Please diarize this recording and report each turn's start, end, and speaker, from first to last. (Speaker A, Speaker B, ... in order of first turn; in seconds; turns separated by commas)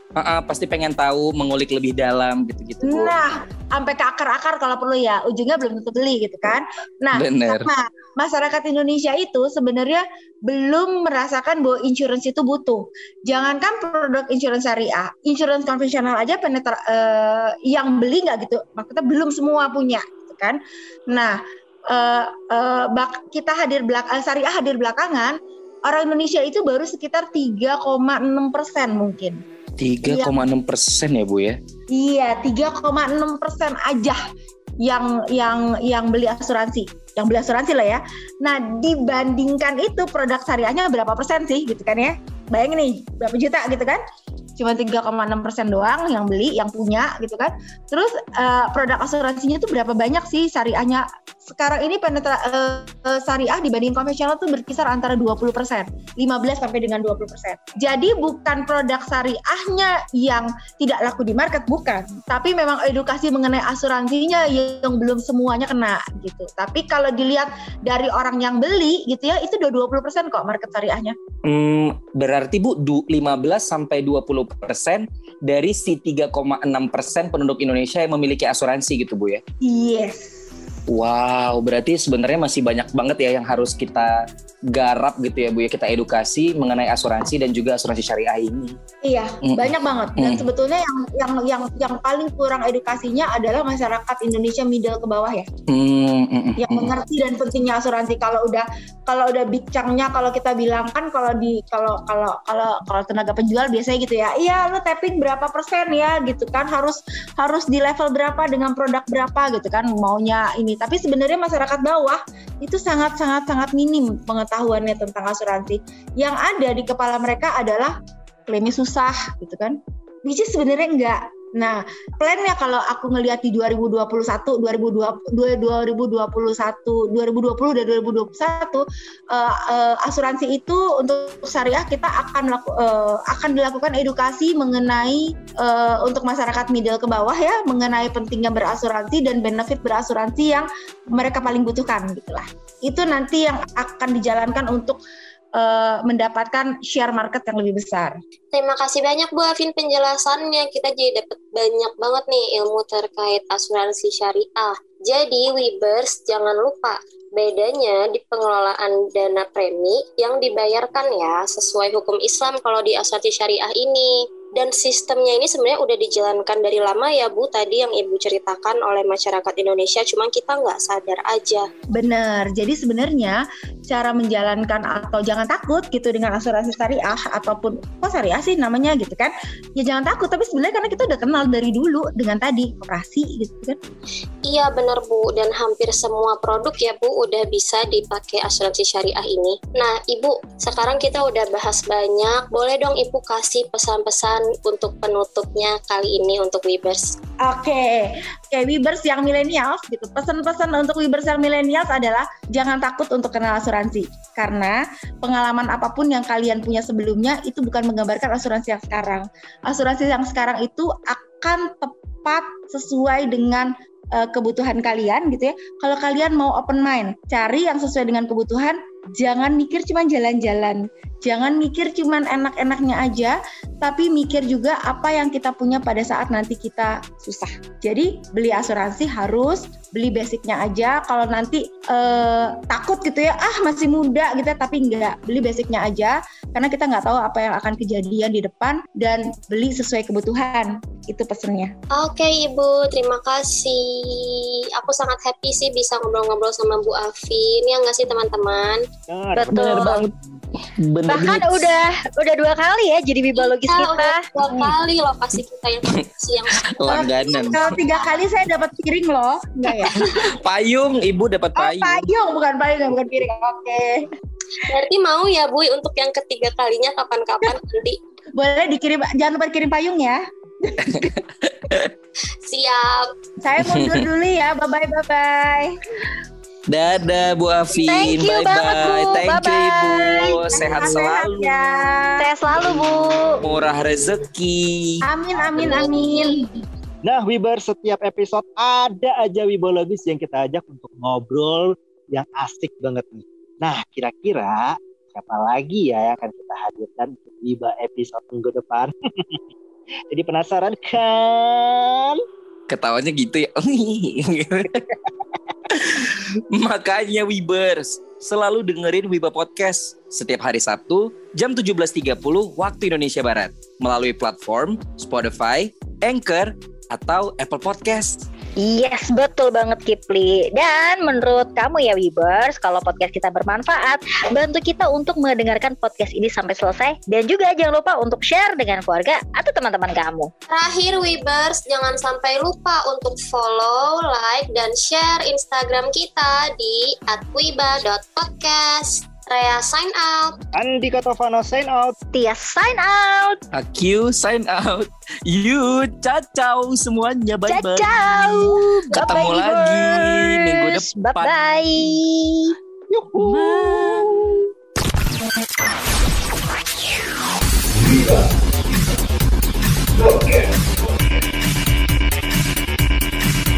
Speaker A: 0.1-3.2, Speaker B: 2.8-21.4, Speaker A: 7.2-7.7, Speaker B: 21.9-29.4, Speaker A: 29.8-31.6, Speaker B: 30.0-30.5, Speaker B: 31.9-34.2, Speaker B: 34.8-44.0, Speaker B: 44.6-71.2, Speaker A: 71.5-79.4, Speaker B: 79.6-80.4, Speaker A: 80.9-84.1, Speaker A: 84.7-88.8, Speaker B: 89.0-95.5, Speaker A: 89.4-90.5, Speaker A: 95.7-96.9, Speaker B: 96.6-118.0, Speaker B: 118.5-145.0, Speaker B: 145.6-148.2, Speaker C: 148.5-171.7, Speaker B: 171.9-183.8, Speaker C: 184.5-197.2, Speaker B: 197.4-241.7, Speaker C: 242.0-248.8, Speaker D: 249.1-250.1, Speaker E: 249.3-250.1, Speaker A: 249.5-250.0, Speaker A: 250.8-251.8, Speaker E: 251.1-254.2, Speaker C: 253.4-258.0, Speaker A: 256.6-257.8, Speaker B: 256.9-260.0, Speaker A: 260.0-262.1, Speaker B: 261.6-264.1, Speaker C: 264.6-268.0, Speaker B: 268.4-271.1, Speaker A: 270.9-271.9, Speaker C: 272.4-273.0, Speaker B: 273.4-275.8, Speaker A: 273.6-274.1, Speaker A: 276.7-281.6, Speaker E: 277.8-280.4, Speaker B: 280.2-282.3, Speaker E: 282.2-283.4, Speaker A: 283.4-285.0, Speaker B: 285.0-286.5, Speaker D: 285.5-285.8, Speaker D: 287.0-299.4, Speaker D: 300.1-302.2, Speaker A: 302.7-304.8, Speaker A: 305.7-318.3, Speaker E: 318.6-330.3, Speaker C: 330.5-340.4, Speaker D: 340.6-342.0, Speaker E: 342.1-343.4, Speaker A: 343.5-352.0, Speaker E: 347.5-352.5, Speaker D: 352.9-354.1